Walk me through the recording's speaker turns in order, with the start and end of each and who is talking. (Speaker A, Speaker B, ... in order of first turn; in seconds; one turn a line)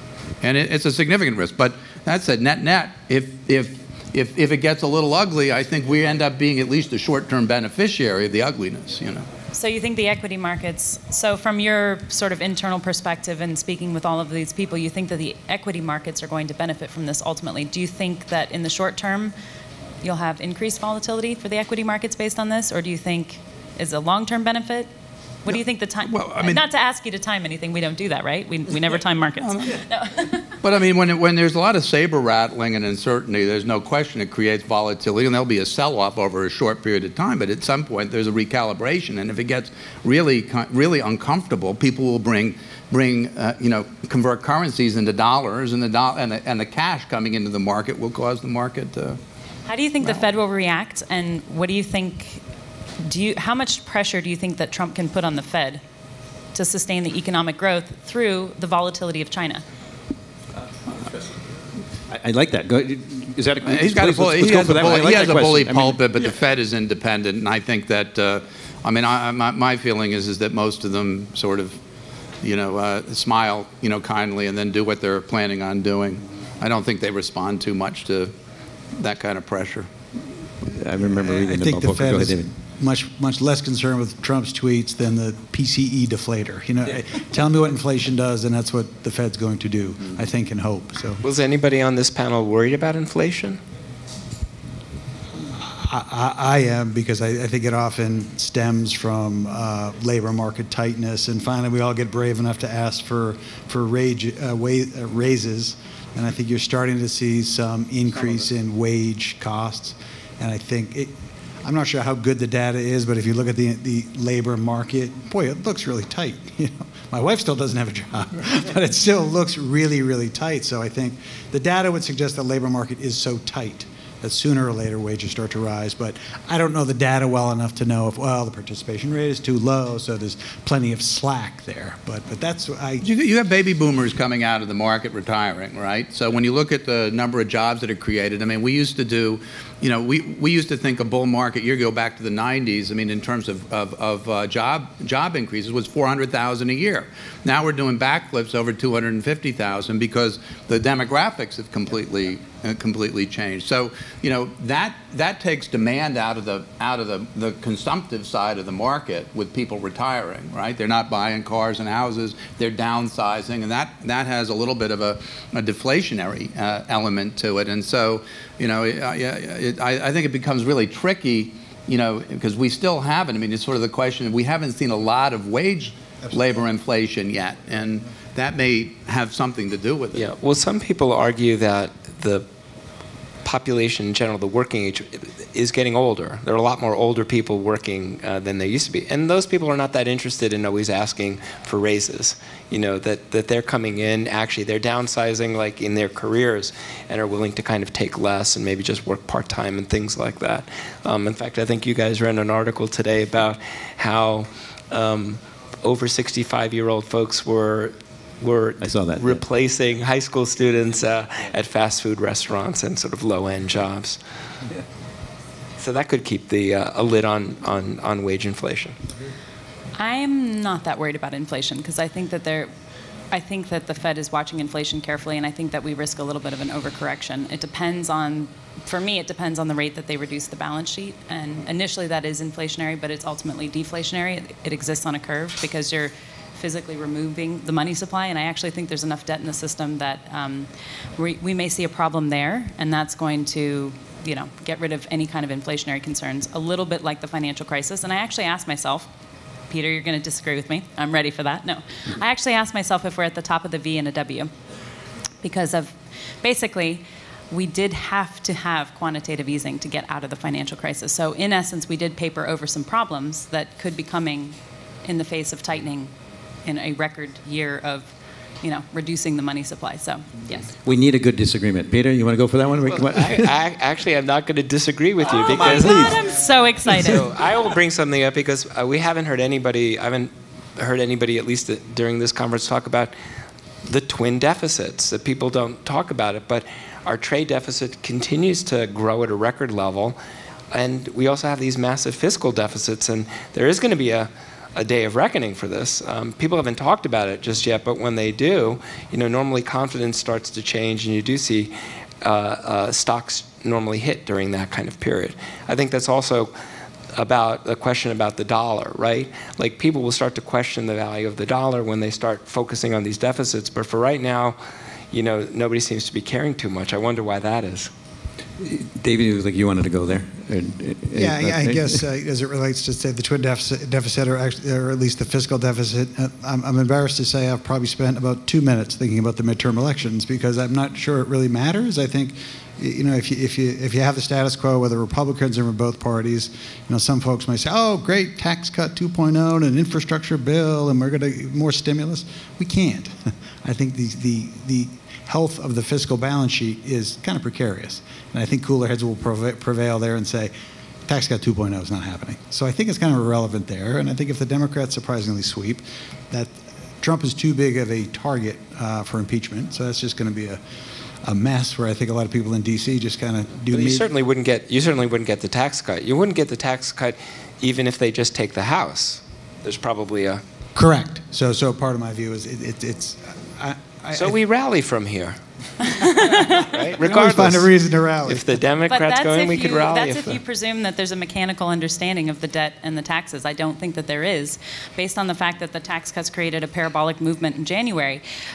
Speaker A: 0.4-9.2
Speaker B: 9.5-19.3
Speaker B: 20.0-24.9
Speaker B: 25.4-30.4
Speaker A: 25.5-26.6
Speaker A: 30.6-49.2
Speaker B: 49.7-52.4
Speaker B: 53.0-55.8
Speaker B: 56.5-59.6
Speaker C: 62.1-66.0
Speaker A: 63.6-71.8
Speaker A: 72.4-78.3
Speaker A: 79.0-79.9
Speaker C: 80.8-82.5
Speaker D: 81.0-91.2
Speaker E: 91.2-93.6
Speaker D: 95.5-133.1
Speaker A: 133.0-180.3
Speaker E: 180.1-182.4
Speaker E: 183.4-214.2
Speaker C: 208.8-209.4
Speaker E: 215.8-218.9
Speaker B: 220.0-222.7
Speaker B: 223.3-249.1
Speaker B: 249.7-254.5
Speaker B: 255.4-266.1
Speaker B: 266.6-270.6
Speaker C: 270.8-273.5
Speaker E: 272.9-276.3
Speaker B: 275.5-277.3
Speaker C: 275.8-276.2
Speaker E: 276.9-283.1
Speaker E: 283.9-290.2
Speaker E: 290.7-306.5
Speaker E: 307.1-314.6
Speaker E: 315.1-317.9
Speaker C: 318.6-321.9
Speaker D: 321.1-350.5
Speaker D: 351.1-360.6
Speaker D: 361.2-364.1
Speaker E: 363.7-370.4
Speaker D: 370.7-374.4
Speaker E: 374.1-380.4
Speaker D: 376.1-378.5
Speaker B: 378.9-388.2